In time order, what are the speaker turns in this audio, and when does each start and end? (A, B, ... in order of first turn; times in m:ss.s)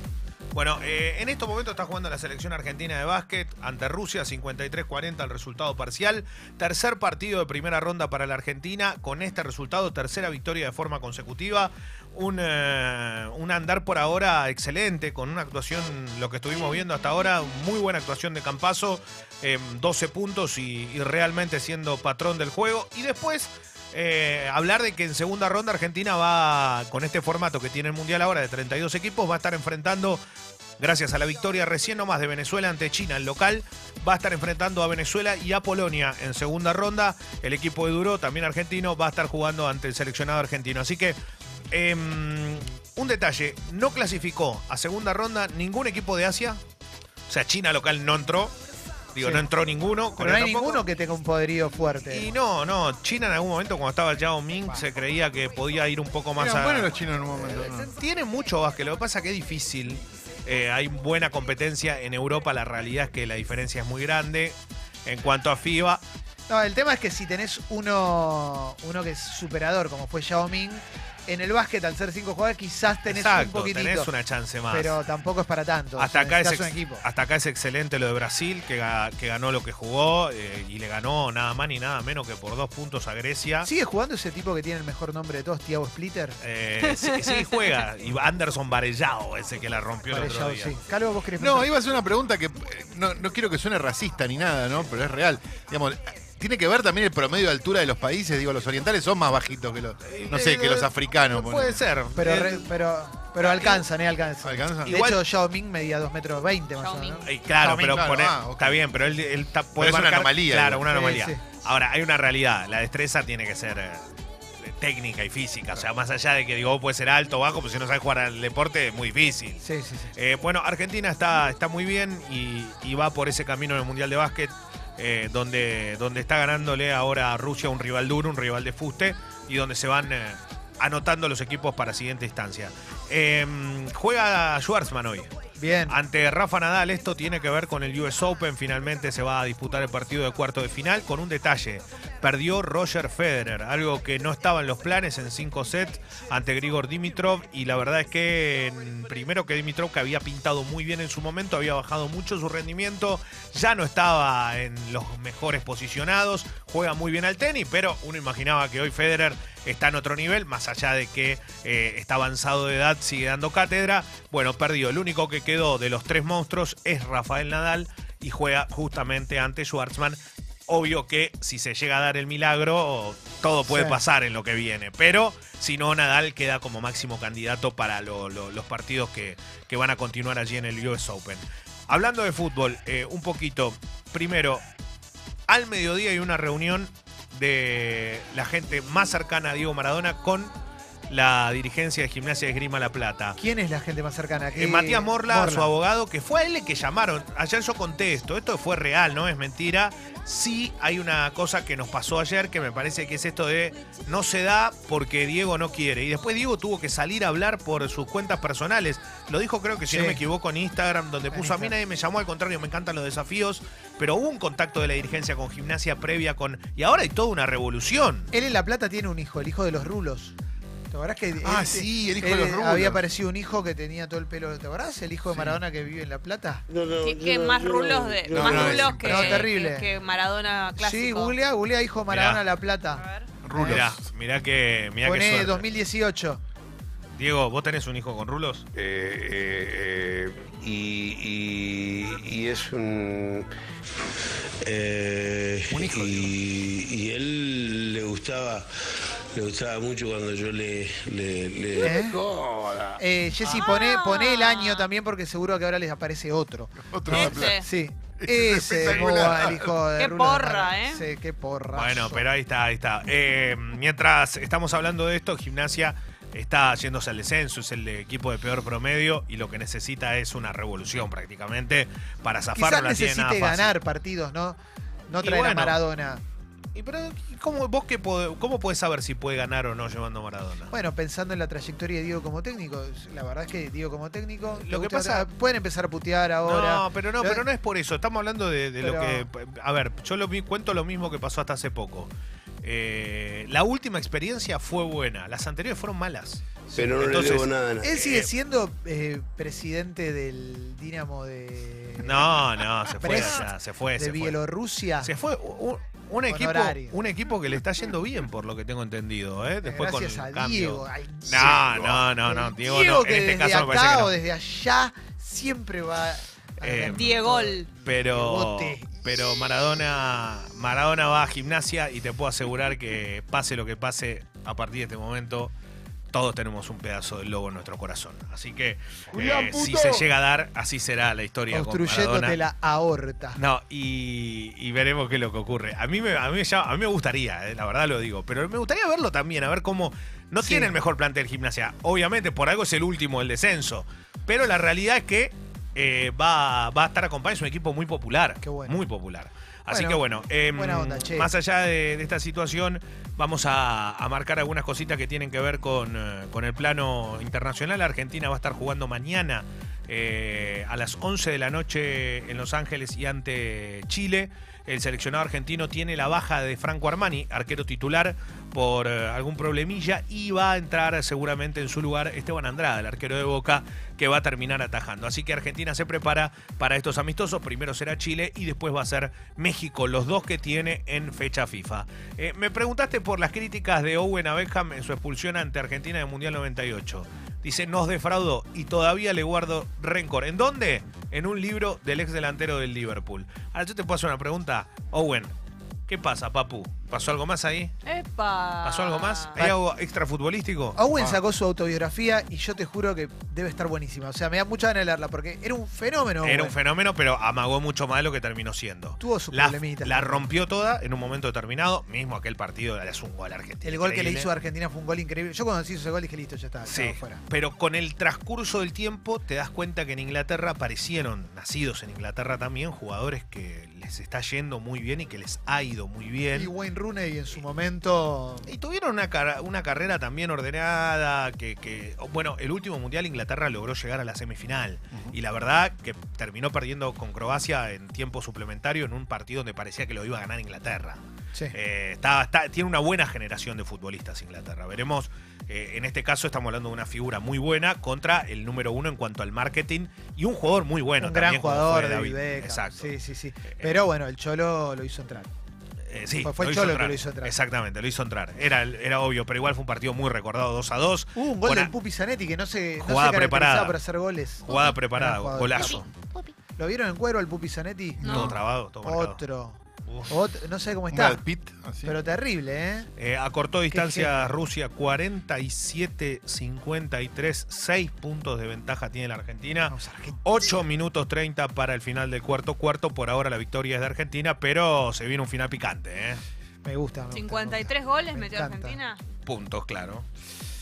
0:00.5-0:30.2 A
0:30.8-0:41.2 A
0:41.7-0:46.6 A
0:47.3-0:48.6 A
0:49.1-0:50.8 A
0:49.2-0:49.5 B
0:50.2-0:52.3 B
0:52.1-1:06.0 A
0:56.4-0:57.9 C
1:06.5-1:14.1 B
1:13.0-1:15.0 A
1:14.7-1:17.0 B
1:16.0-1:23.7 A
1:23.6-1:26.4 B
1:26.4-1:30.8 A
1:30.1-1:31.7 B
1:31.4-1:41.9 C
1:40.0-1:42.7 A
1:42.1-1:48.1 B
1:43.4-1:43.8 A
1:44.4-1:45.0 C
1:44.8-1:45.2 A
1:46.8-1:47.2 D
1:47.2-1:54.1 A
1:47.8-1:48.9 C
1:49.8-1:50.9 C
1:50.9-1:51.4 B
1:54.7-2:15.3 A
1:59.6-2:00.2 B
2:15.5-2:16.0 B
2:15.9-3:04.6 A
2:53.7-2:54.0 B
3:05.5-3:10.5 A
3:11.1-3:13.4 A
3:13.4-3:15.7 B
3:14.5-3:38.3 A
3:29.9-3:30.2 B
3:31.3-3:31.8 B
3:38.3-3:40.3 B
3:40.9-3:46.6 B
3:41.4-3:43.0 C
3:45.3-3:45.6 C
3:46.7-3:49.2 E
3:47.0-3:51.4 D
3:48.3-3:49.3 C
3:48.8-3:49.9 B
3:49.2-3:49.5 A
3:50.8-3:53.8 B
3:52.1-3:52.4 A
3:53.4-3:54.0 C
3:53.6-3:55.6 A
3:55.0-3:56.4 B
3:57.2-3:58.7 A
3:58.7-4:03.5 E
4:04.6-4:08.7 E
4:05.7-4:06.4 C
4:09.3-4:13.0 E
4:11.8-4:12.2 B
4:13.0-4:22.2 B
4:13.5-4:14.9 D
4:16.8-4:17.6 C
4:17.1-4:17.6 D
4:18.2-4:19.8 C
4:18.8-4:19.5 A
4:20.0-4:21.0 D
4:21.7-4:33.7 A
4:32.5-4:36.2 B
4:35.2-4:35.8 A
4:36.8-4:40.7 A
4:40.7-4:47.4 B
4:44.5-4:45.3 A
4:46.4-4:52.1 A
4:48.8-4:49.3 B
4:52.6-4:58.3 A
4:56.8-4:57.9 E
4:57.8-5:05.1 B
5:02.0-5:04.4 A
5:05.0-5:14.1 A
5:06.3-5:07.0 B
5:09.6-5:18.9 B
5:11.3-5:11.6 C
5:16.6-5:17.1 A
5:16.9-5:17.7 D
5:17.8-5:25.5 A
5:26.1-5:32.4 A
5:29.1-5:30.1 C
5:31.5-5:33.4 B
5:33.4-6:35.3 A
5:40.4-5:40.8 B
5:48.4-5:48.8 B
5:49.7-5:51.3 B
6:35.9-6:37.7 A
6:37.8-6:39.3 D
6:38.6-6:40.8 A
6:40.8-6:46.6 B
6:40.9-6:41.2 C
6:46.2-6:54.3 A
6:49.0-6:50.3 B
6:53.6-6:57.2 B
6:56.6-7:06.5 A
7:06.3-7:08.5 B
7:08.5-7:21.0 A
7:21.5-7:32.9 A
7:31.0-7:35.3 B
7:35.9-7:41.7 A
7:36.2-7:37.4 B
7:41.1-7:45.8 B
7:42.8-7:43.8 A
7:44.4-7:45.9 A
7:46.6-7:51.2 B
7:48.0-7:48.4 D
7:48.0-7:49.2 A
7:49.9-7:50.1 A
7:50.9-7:52.0 C
7:51.8-7:52.9 B
7:53.0-8:06.2 A
7:53.7-7:54.4 B
7:59.7-8:00.4 B
8:06.6-8:08.8 B
8:07.1-8:09.0 D
8:09.2-8:10.1 A